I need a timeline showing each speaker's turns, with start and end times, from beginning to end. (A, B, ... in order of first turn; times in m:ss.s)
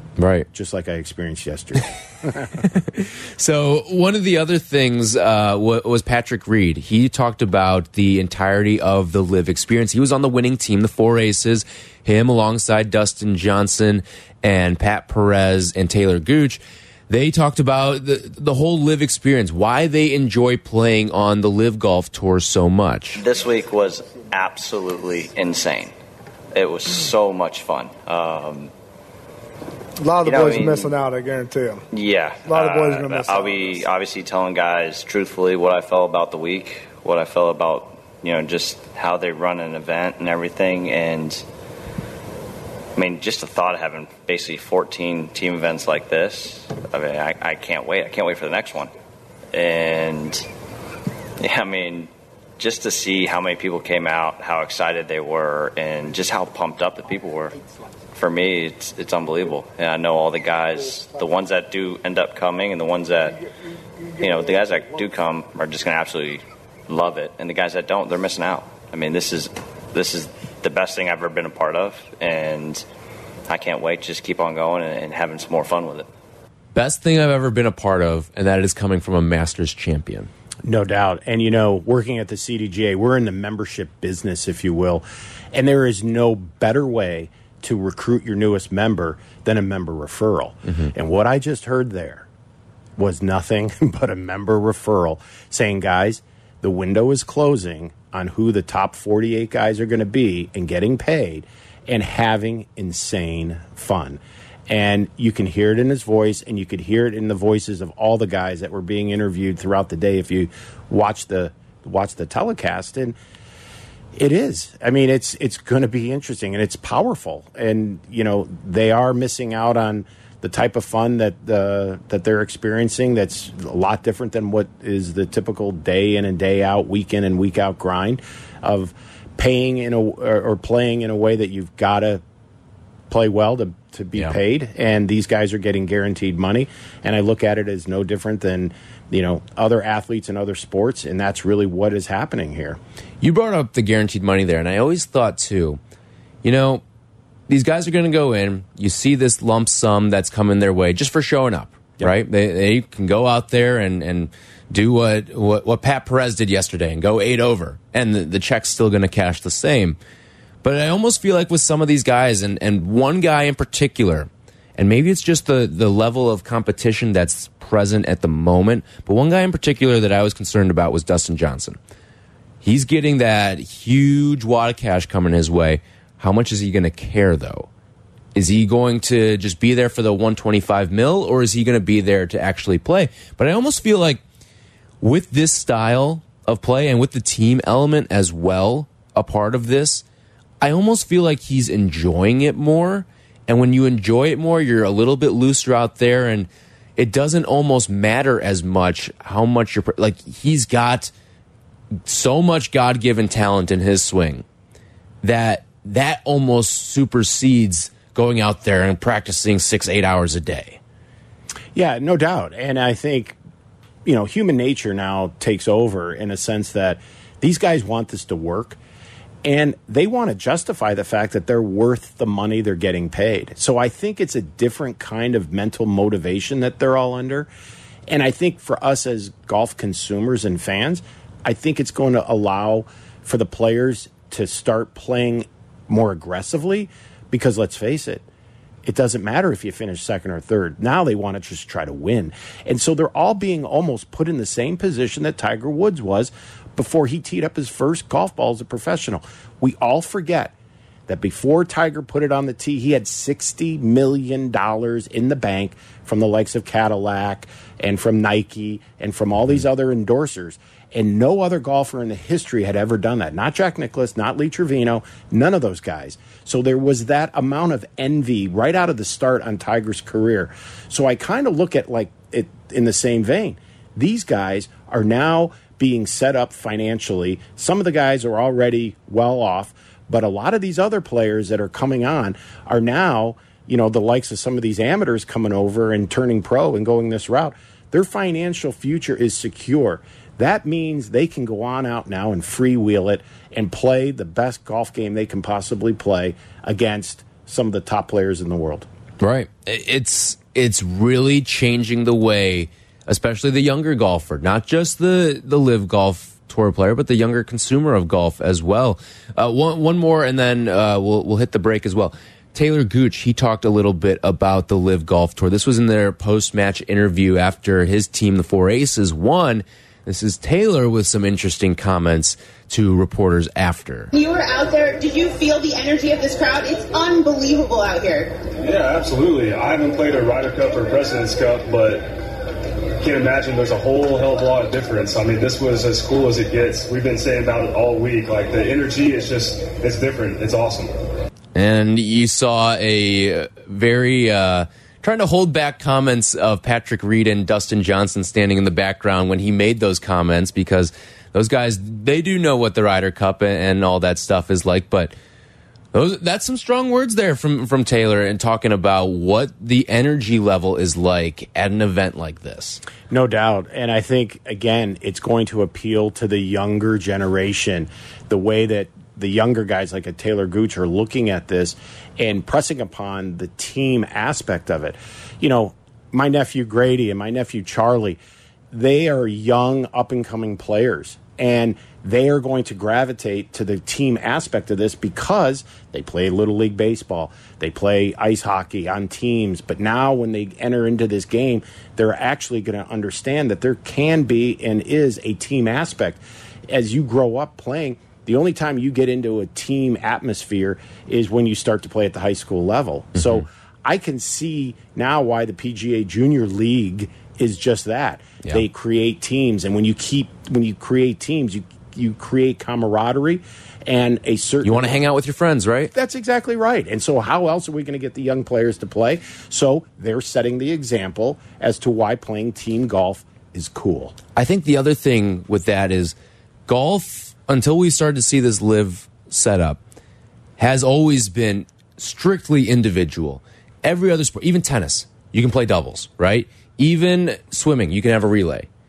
0:00.2-0:00.5 A
0:00.5-0:02.6 B
0:02.6-0:23.2 A
0:23.2-0:25.9 C
0:26.5-0:28.7 C
0:30.0-0:31.8 D
0:30.2-0:31.0 C
0:31.9-0:41.4 C
0:32.4-0:33.6 D
0:43.0-0:48.9 C
0:49.5-0:50.5 C
0:51.4-0:57.6 C
0:58.1-1:03.4 C
1:04.2-1:12.8 C
1:13.5-1:16.1 C
1:16.7-1:20.3 A
1:20.6-1:32.3 B
1:30.7-1:30.9 A
1:33.0-1:53.2 B
1:54.2-2:12.2 B
2:13.1-2:22.8 B
2:23.2-2:25.8 A
2:26.4-2:26.8 A
2:27.5-2:40.0 A
2:40.6-2:51.8 A
2:52.6-2:57.7 A
2:58.3-3:04.2 A
3:05.0-3:10.0 A
3:10.6-3:21.1 A
3:22.1-3:24.4 A
3:25.2-3:30.8 A
3:31.7-3:33.4 B
3:34.0-3:38.8 B
3:39.4-3:47.5 B
3:48.1-3:58.2 B
3:58.8-4:10.5 B
4:11.1-4:58.9 B
4:59.2-5:24.1 A
5:24.1-5:28.4 E
5:28.6-5:32.1 F
5:33.0-5:40.9 F
5:41.5-5:55.1 A
5:55.9-6:02.8 A
6:03.1-6:18.2 B
6:18.7-6:55.0 B
6:43.1-6:43.4 A
6:54.6-6:55.9 A
6:55.9-7:04.2 B
7:04.3-7:06.2 A
7:06.7-7:09.8 A
7:10.6-7:18.7 A